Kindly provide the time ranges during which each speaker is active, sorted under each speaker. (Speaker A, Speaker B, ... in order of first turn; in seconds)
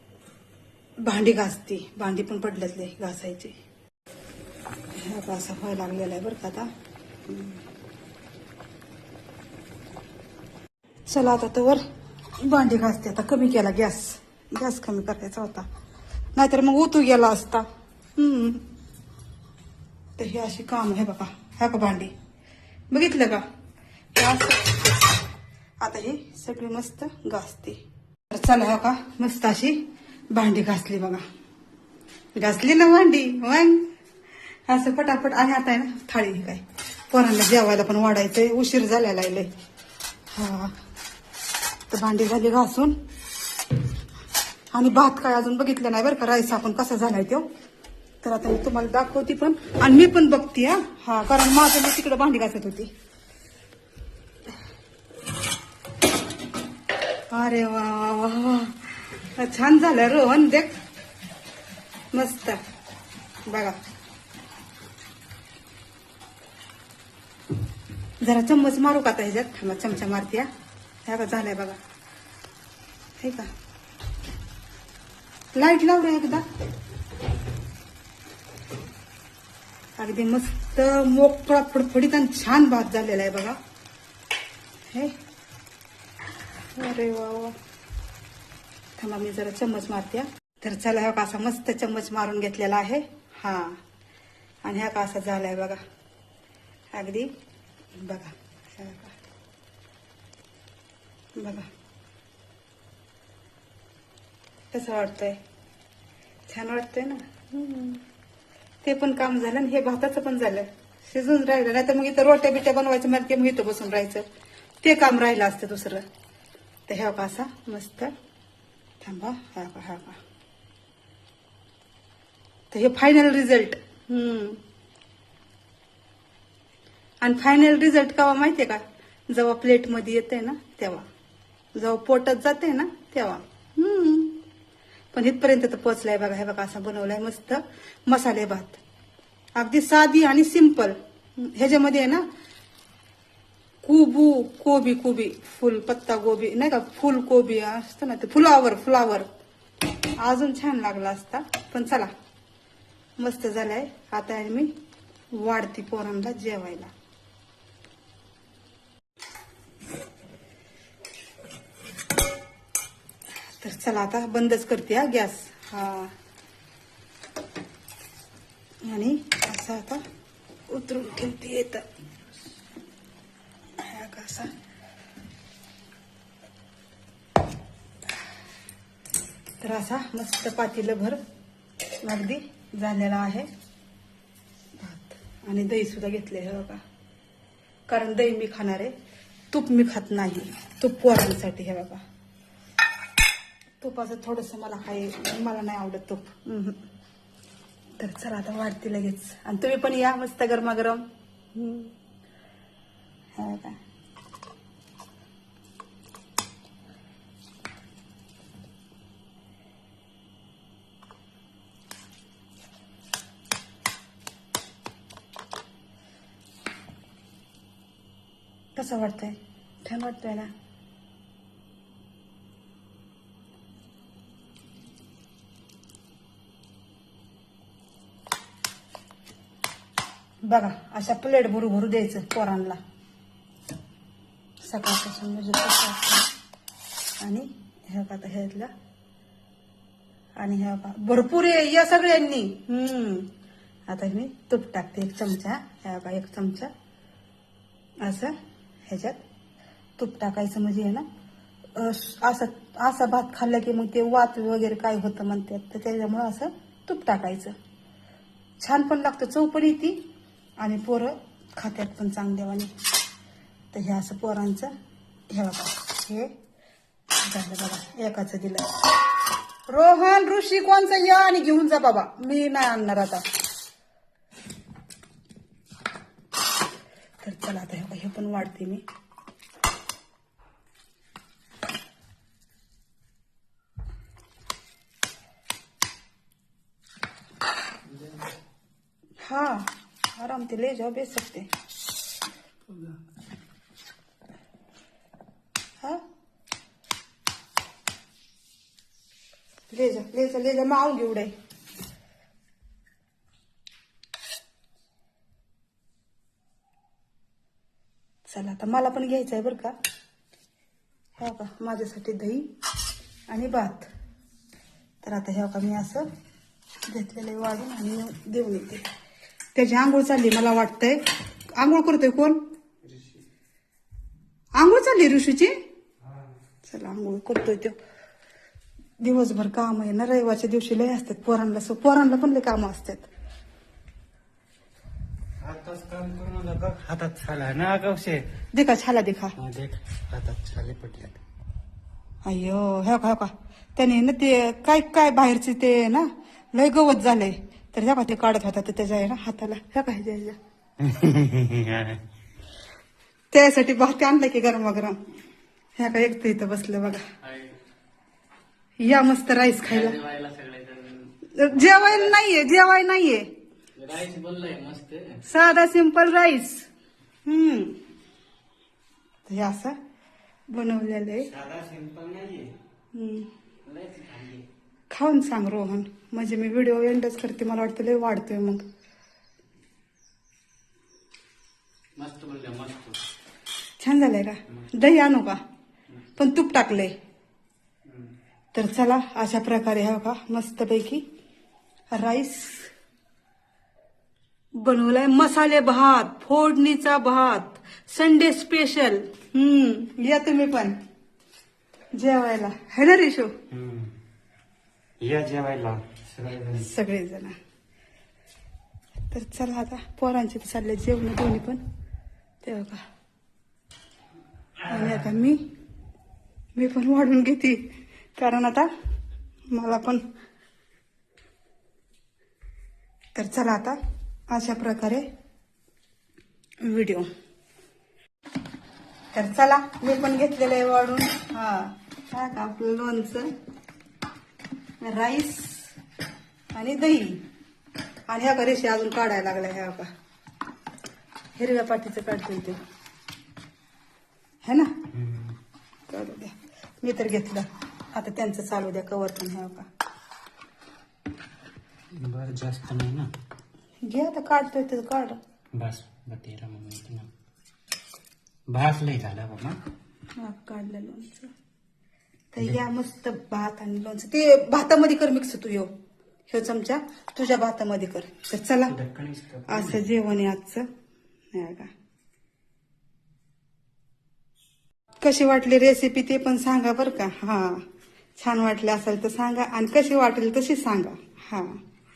Speaker A: 1.0-3.5, 4.9-6.7, 7.3-7.6, 11.1-11.8, 12.4-15.7, 16.3-18.6, 20.2-22.1, 22.9-23.4, 24.1-25.1, 25.8-27.8, 28.3-31.2, 32.4-33.9, 34.7-39.5, 40.3-40.8, 41.9-42.9, 44.7-47.5, 48.2-52.9, 57.3-60.7, 62.1-62.6, 63.5-63.8, 68.2-70.5, 71.0-71.8, 73.2-73.5, 75.5-76.5, 80.0-83.6, 84.9-85.1, 86.8-87.6, 89.0-93.8, 94.6-95.8, 96.9-97.3, 97.9-99.2, 101.3-101.7, 104.7-105.4, 106.5-108.0, 108.8-114.2, 114.8-116.0, 116.9-118.1, 119.0-120.2, 122.7-124.6, 127.2-131.0, 131.7-134.4, 135.1-138.8, 139.5-142.2, 143.8-149.3, 150.2-152.1, 153.2-154.7, 155.3-156.9, 163.6-166.1, 168.8-170.0, 170.7-171.9, 173.8-174.5, 179.6-181.2, 182.0-183.5, 184.8-186.8, 187.9-188.9, 189.5-192.0, 193.8-196.8, 198.0-201.9, 203.3-203.8, 218.7-220.5, 230.4-232.8, 234.6-236.3, 237.2-238.7, 240.4-243.3, 243.9-246.7, 248.0-248.3, 248.8-249.2, 250.0-251.1, 251.7-257.5, 258.6-260.0, 260.6-262.7, 263.7-264.7, 265.3-266.3, 267.2-268.7, 269.7-273.3, 277.2-278.8, 289.2-291.5, 299.7-301.3, 308.2-309.7, 311.2-312.5, 313.3-313.9, 315.0-316.1, 316.9-318.9, 319.5-321.0, 321.6-322.4, 324.6-325.6, 326.6-327.8, 329.0-333.1, 338.5-339.4, 342.2-350.4, 353.3-355.0, 355.8-357.1, 358.8-360.0, 361.3-363.3, 365.2-366.6, 367.2-367.8, 369.2-369.8, 370.5-371.3, 372.9-373.3, 374.9-378.6, 383.8-385.4, 386.2-386.9, 388.5-391.1, 391.9-392.7, 394.6-400.7, 401.9-403.3, 406.6-407.4, 409.1-411.6, 412.4-412.8, 414.6-415.4, 416.5-417.6, 418.2-418.7, 419.5-420.0, 423.1-423.8, 424.3-425.0, 426.6-427.1, 429.1-433.3, 434.8-435.7, 436.5-437.2, 438.1-439.9, 441.4-442.6, 444.4-444.8, 445.9-449.7, 453.8-455.2, 460.2-461.3, 462.3-465.7, 466.3-468.8, 469.5-470.7, 471.3-471.7, 475.0-477.6, 478.2-481.6
Speaker B: 335.4-338.2, 339.4-341.2, 350.8-352.0, 371.3-372.6, 382.0-382.9, 403.5-403.9, 405.0-406.7, 444.9-445.4, 451.9-453.1, 455.5-457.1, 458.5-459.6, 468.7-469.8
Speaker C: 359.8-361.1, 363.9-365.1, 373.7-374.4, 382.0-382.9